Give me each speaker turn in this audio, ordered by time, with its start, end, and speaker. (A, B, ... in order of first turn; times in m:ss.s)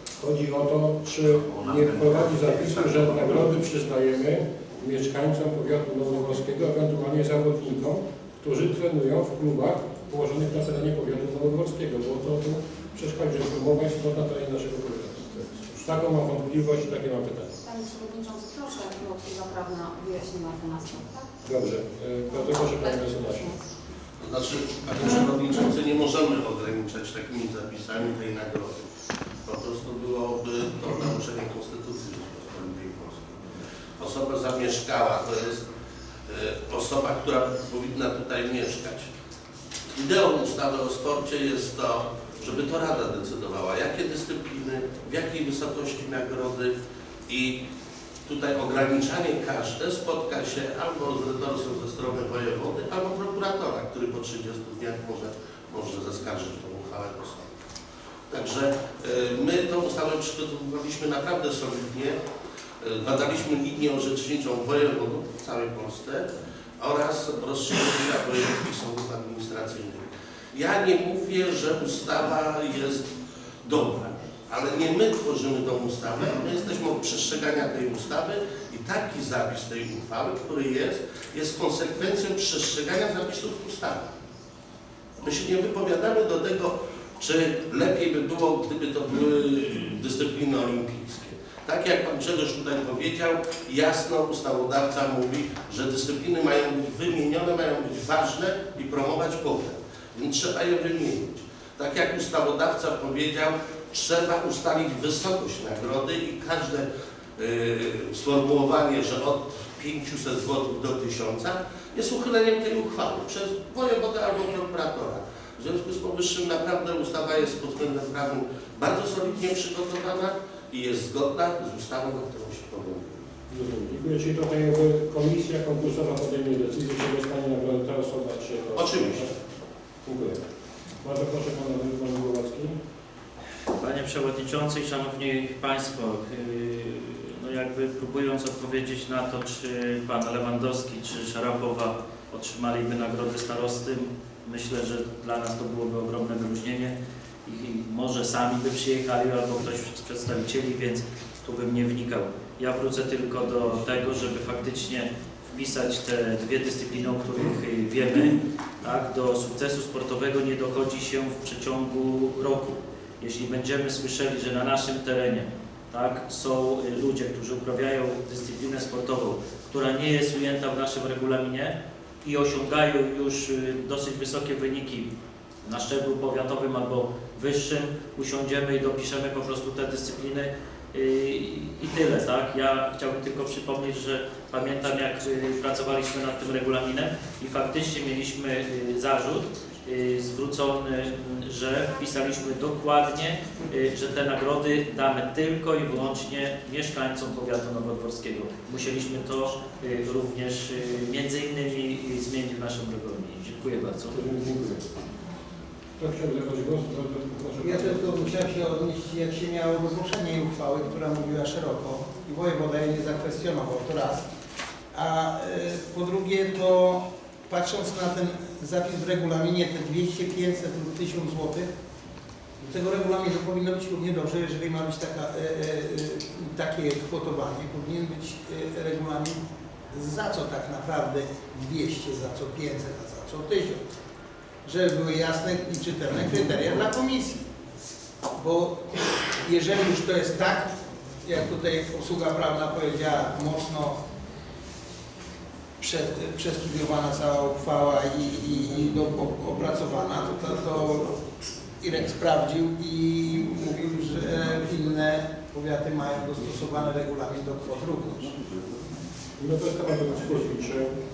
0:00.2-0:17.6 A
0:01.8-0:02.2 B
0:17.6-0:21.3 C
0:21.4-0:23.5 A
0:22.4-0:23.6 C
0:24.2-0:28.9 B
0:29.4-0:33.4 B
0:34.0-0:35.6 B
0:36.3-0:39.1 B
0:40.0-0:46.7 B
0:47.3-0:47.6 B
0:48.3-0:57.5 B
0:58.3-1:02.2 B
1:02.8-1:13.1 B
1:13.6-1:24.1 B
1:25.2-1:46.9 B
1:47.4-2:03.2 B
2:03.5-2:09.3 A
2:08.8-2:09.2 B
2:10.0-2:10.4 A
2:11.0-2:12.8 A
2:13.8-2:27.0 D
2:27.5-2:55.1 D
2:55.6-3:24.2 D
3:24.1-3:24.9 A
3:26.0-3:28.5 A
3:27.6-3:34.3 E
3:34.9-3:41.7 E
3:42.6-3:49.4 E
3:49.9-3:53.8 E
3:54.6-3:57.4 E
3:58.4-4:04.0 E
4:05.8-4:11.2 E
4:11.8-4:18.4 E
4:19.4-4:21.0 A